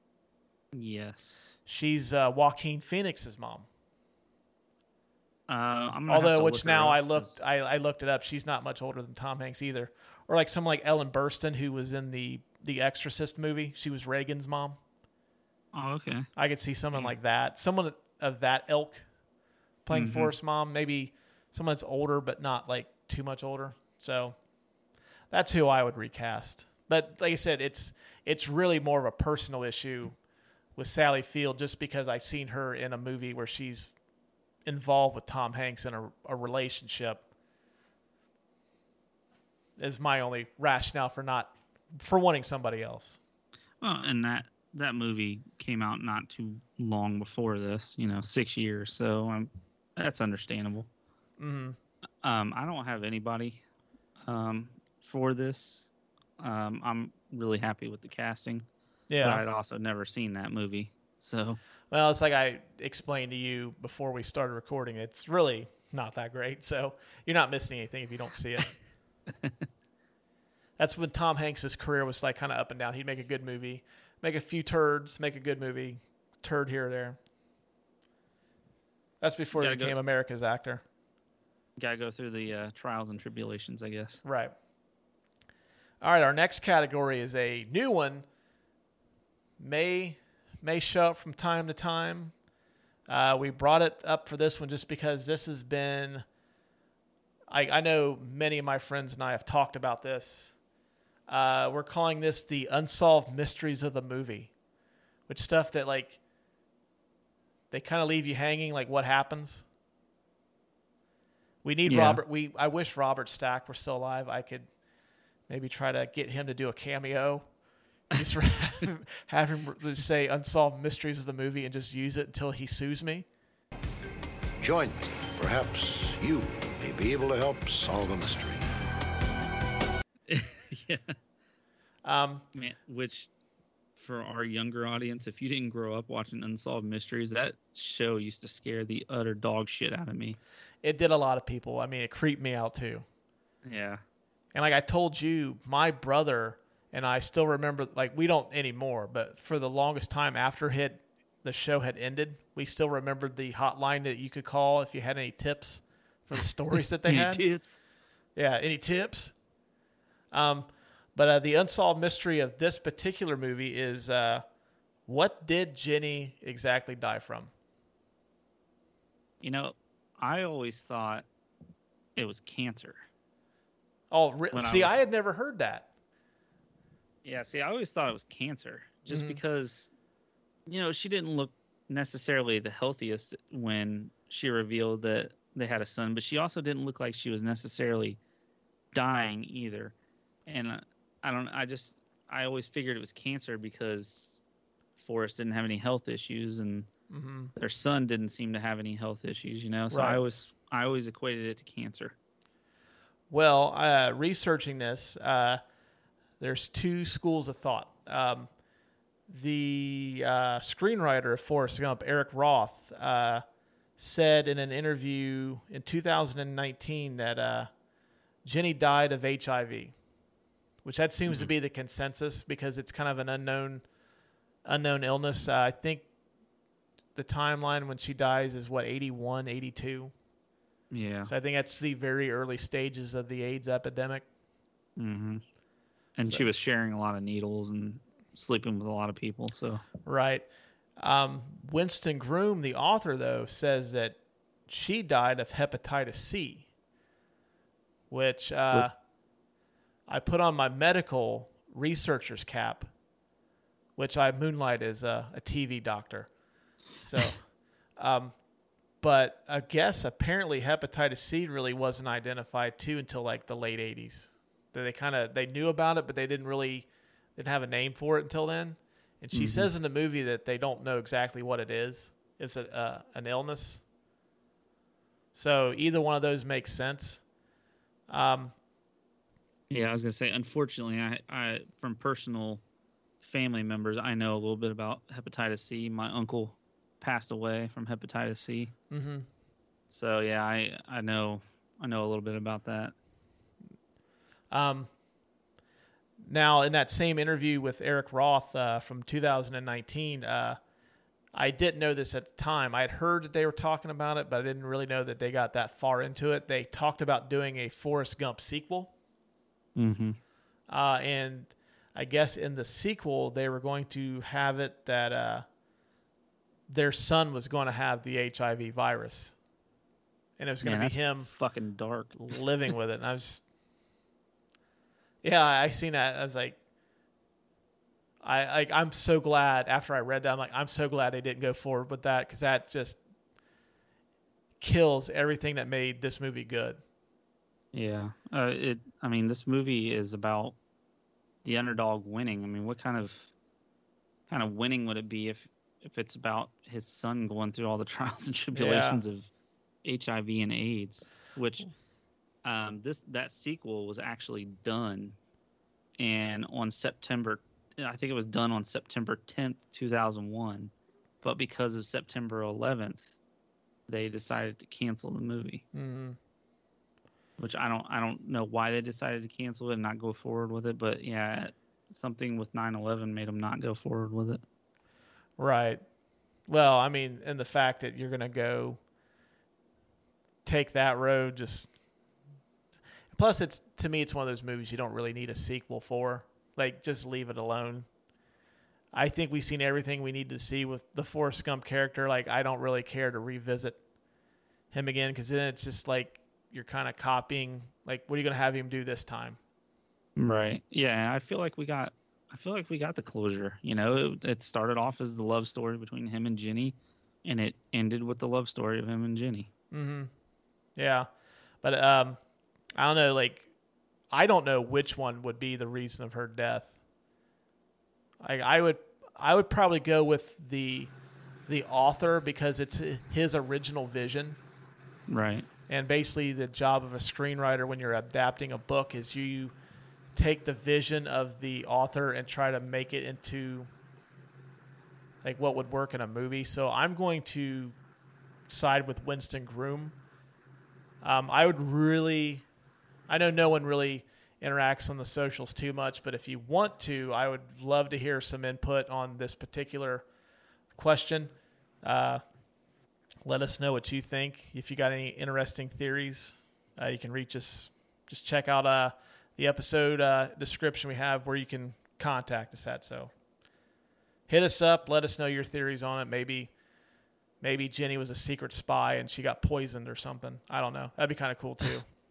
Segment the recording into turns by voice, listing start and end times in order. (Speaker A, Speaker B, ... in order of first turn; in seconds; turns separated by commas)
Speaker A: 0.7-1.5, Speaker B: 1.7-3.6, Speaker A: 5.5-7.4, Speaker B: 6.1-14.8, Speaker A: 15.7-16.3, Speaker B: 16.4-19.0, Speaker B: 19.8-24.4, Speaker A: 19.9-20.3, Speaker B: 25.3-30.2, Speaker B: 30.8-33.9, Speaker B: 34.6-37.2, Speaker B: 39.8-43.2, Speaker A: 43.8-50.9, Speaker B: 51.4-51.8, Speaker A: 52.2-53.6, Speaker A: 54.2-58.6, Speaker B: 59.1-59.4, Speaker A: 59.2-61.6, Speaker B: 61.9-68.8, Speaker A: 69.3-69.5, Speaker B: 70.8-77.2, Speaker B: 79.2-80.8, Speaker A: 79.5-79.9, Speaker A: 81.8-84.2, Speaker B: 84.2-84.5, Speaker B: 86.0-88.2, Speaker B: 89.6-92.3, Speaker B: 93.1-96.2, Speaker B: 97.5-100.5, Speaker B: 101.3-104.5, Speaker B: 105.3-106.2, Speaker B: 107.7-109.6, Speaker B: 111.6-114.7, Speaker A: 111.8-112.2, Speaker B: 115.5-117.5, Speaker B: 118.1-123.2, Speaker C: 124.6-128.6, Speaker A: 130.3-131.1, Speaker B: 132.0-132.4, Speaker A: 132.5-133.3, Speaker A: 134.0-140.4, Speaker B: 140.8-143.0, Speaker A: 143.6-144.0, Speaker B: 144.5-157.4, Speaker A: 157.0-157.8, Speaker B: 158.3-159.3, Speaker B: 160.3-164.4, Speaker B: 165.1-167.5, Speaker A: 169.4-171.2, Speaker A: 172.2-173.0, Speaker B: 174.1-175.9, Speaker A: 174.5-175.0, Speaker A: 177.2-179.9, Speaker B: 179.1-179.4, Speaker A: 180.7-188.2, Speaker A: 188.9-189.9, Speaker A: 190.5-194.4, Speaker A: 195.0-196.9, Speaker B: 197.1-197.5, Speaker A: 197.6-202.1, Speaker B: 199.9-200.2, Speaker B: 203.3-205.6, Speaker B: 206.4-208.5, Speaker B: 209.3-213.4, Speaker B: 214.0-217.7, Speaker B: 218.4-219.9, Speaker B: 220.8-223.8, Speaker B: 224.6-226.0, Speaker B: 227.1-230.1, Speaker A: 230.9-231.3, Speaker B: 231.3-234.2, Speaker A: 235.0-235.4, Speaker A: 236.2-239.8, Speaker B: 240.0-240.4, Speaker B: 241.0-244.2, Speaker B: 244.7-246.7, Speaker B: 248.1-248.9, Speaker B: 250.1-252.9, Speaker B: 254.0-256.3, Speaker B: 256.9-258.3, Speaker B: 259.0-273.8, Speaker A: 269.3-269.7, Speaker B: 275.3-277.2, Speaker B: 278.1-278.5, Speaker A: 279.7-282.6, Speaker A: 283.2-288.7, Speaker B: 288.9-289.3, Speaker A: 289.9-292.9, Speaker B: 294.5-294.9, Speaker B: 296.2-300.6, Speaker B: 301.3-308.9, Speaker A: 309.8-310.2, Speaker B: 310.7-315.4, Speaker B: 316.7-319.3, Speaker B: 320.4-321.3, Speaker A: 320.6-322.4, Speaker B: 322.1-323.4, Speaker B: 325.2-326.6, Speaker B: 328.2-333.0, Speaker B: 334.6-336.8, Speaker A: 337.7-340.5, Speaker A: 341.4-343.3, Speaker A: 344.3-349.3, Speaker B: 348.5-349.0, Speaker A: 349.8-351.7, Speaker A: 352.4-355.2, Speaker A: 356.0-363.1, Speaker A: 363.9-365.6, Speaker B: 365.7-366.2, Speaker A: 367.4-374.4, Speaker B: 375.4-375.8, Speaker B: 376.5-378.8, Speaker B: 380.4-381.7, Speaker B: 383.1-387.9, Speaker B: 388.9-393.8, Speaker B: 394.7-399.4, Speaker A: 400.2-409.5, Speaker B: 409.7-410.1, Speaker B: 410.8-411.1, Speaker B: 411.6-412.2, Speaker B: 412.8-413.5, Speaker B: 414.1-416.7, Speaker B: 418.2-420.9, Speaker B: 421.5-424.4, Speaker A: 425.1-425.5, Speaker B: 425.7-429.5, Speaker B: 430.1-433.7, Speaker B: 435.2-437.7, Speaker B: 438.5-439.9, Speaker B: 441.0-442.4, Speaker B: 443.1-450.0, Speaker B: 450.7-452.2, Speaker B: 453.2-463.1, Speaker B: 464.3-466.5, Speaker B: 467.4-471.9